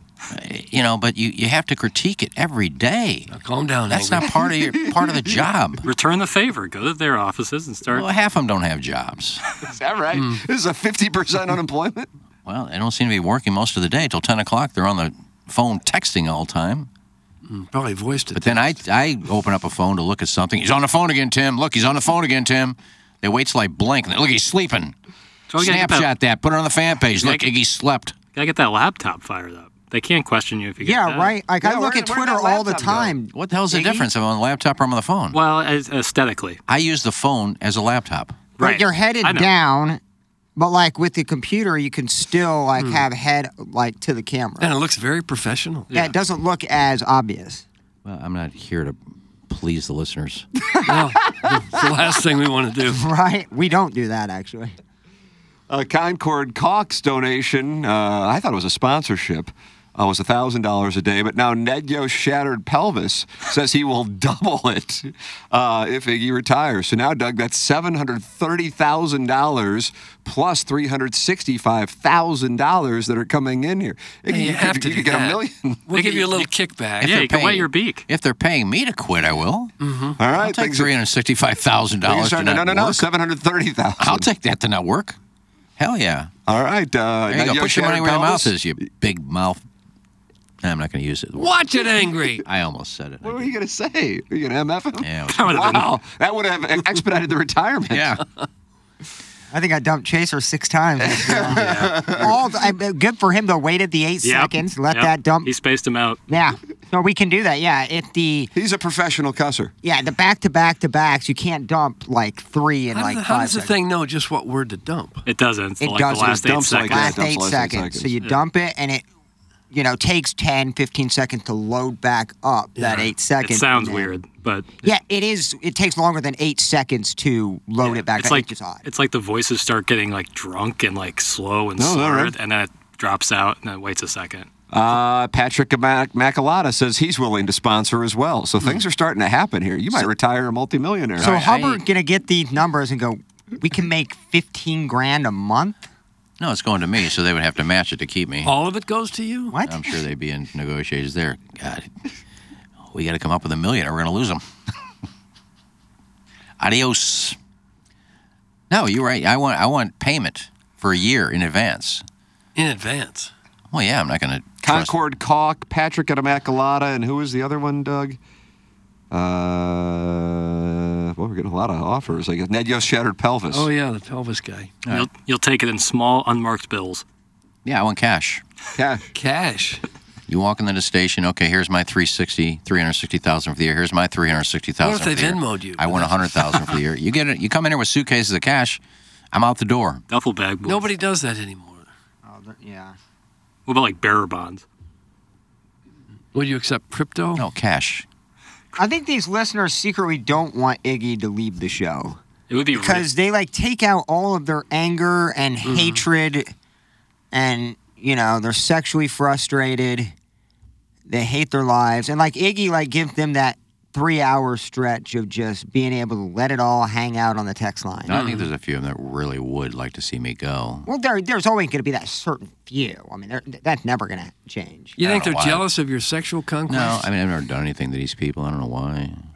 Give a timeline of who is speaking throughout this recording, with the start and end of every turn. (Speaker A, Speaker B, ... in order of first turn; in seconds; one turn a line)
Speaker A: 0.3-3.3
Speaker B: 3.3-4.5
Speaker A: 3.9-5.8
Speaker C: 4.9-5.3
Speaker D: 5.9-8.1
Speaker A: 7.9-9.4
Speaker C: 9.6-12.1
Speaker B: 10.1-10.4
Speaker A: 12.4-16.9
Speaker B: 17.4-18.8
Speaker A: 18.3-24.9
Speaker D: 25.5-26.1
Speaker A: 25.6-28.1
Speaker D: 28.3-31.3
Speaker E: 30.8-34.1
Speaker C: 31.6-33.1
Speaker A: 33.3-35.4
Speaker D: 35.3-36.6
Speaker A: 36.7-38.5
Speaker D: 38.6-39.5
Speaker E: 38.6-40.0
Speaker E: 40.5-44.7
Speaker B: 42.8-43.0
Speaker B: 44.6-45.9
Speaker D: 45.9-46.1
Speaker E: 45.9-47.6
Speaker A: 48.0-50.5
Speaker B: 50.9-53.0
Speaker E: 52.8-54.7
Speaker C: 55.7-75.9
Speaker B: 74.3-77.1
Speaker A: 77.0-79.7
Speaker D: 77.0-78.0
Speaker B: 79.8-80.2
Speaker C: 80.2-80.9
Speaker A: 80.3-83.1
Speaker C: 82.0-84.3
Speaker A: 84.0-85.2
Speaker A: 85.8-86.3
Speaker C: 86.5-88.6
Speaker A: 87.3-89.6
Speaker A: 90.6-91.6
Speaker B: 91.3-92.5
Speaker A: 92.4-93.5
Speaker C: 93.2-98.1
Speaker A: 95.0-95.5
Speaker D: 95.3-95.9
Speaker A: 97.9-98.2
Speaker E: 99.5-105.5
Speaker C: 101.0-102.4
Speaker D: 104.2-106.2
Speaker E: 106.3-108.5
Speaker C: 108.5-109.7
Speaker E: 109.8-113.8
Speaker B: 112.9-115.2
Speaker D: 115.3-117.2
Speaker E: 115.8-119.0
Speaker C: 116.4-118.1
Speaker E: 119.7-124.1
Speaker B: 122.8-123.1
Speaker D: 123.4-124.9
Speaker E: 124.8-128.8
Speaker D: 127.8-134.5
Speaker C: 131.8-132.3
Speaker C: 134.7-141.3
Speaker A: 141.2-141.8
Speaker E: 141.2-145.8
Speaker A: 146.4-148.5
Speaker B: 148.4-149.6
Speaker E: 149.5-149.8
Speaker A: 149.6-151.9
Speaker A: 152.9-154.4
Speaker A: 156.6-157.4
Speaker A: 158.7-162.0
Speaker B: 162.5-163.3
Speaker A: 163.7-164.9
Speaker C: 164.6-168.2
Speaker C: 169.1-173.7
Speaker B: 173.5-174.8
Speaker D: 174.9-177.0
Speaker A: 177.6-178.4
Speaker C: 178.7-179.1
Speaker B: 179.1-179.8
Speaker A: 180.3-188.8
Speaker B: 184.8-186.8
Speaker A: 189.3-190.0
Speaker D: 190.1-190.9
Speaker B: 190.6-191.9
Speaker E: 192.2-192.9
Speaker D: 193.7-194.6
Speaker B: 196.3-197.4
Speaker A: 197.3-198.1
Speaker E: 198.8-202.2
Speaker D: 202.5-203.1
Speaker E: 202.7-206.5
Speaker B: 205.7-206.0
Speaker E: 207.3-210.1
Speaker E: 211.1-218.2
Speaker A: 218.1-220.9
Speaker B: 218.1-218.5
Speaker E: 220.8-225.0
Speaker B: 225.0-227.1
Speaker A: 225.0-225.6
Speaker A: 226.7-229.2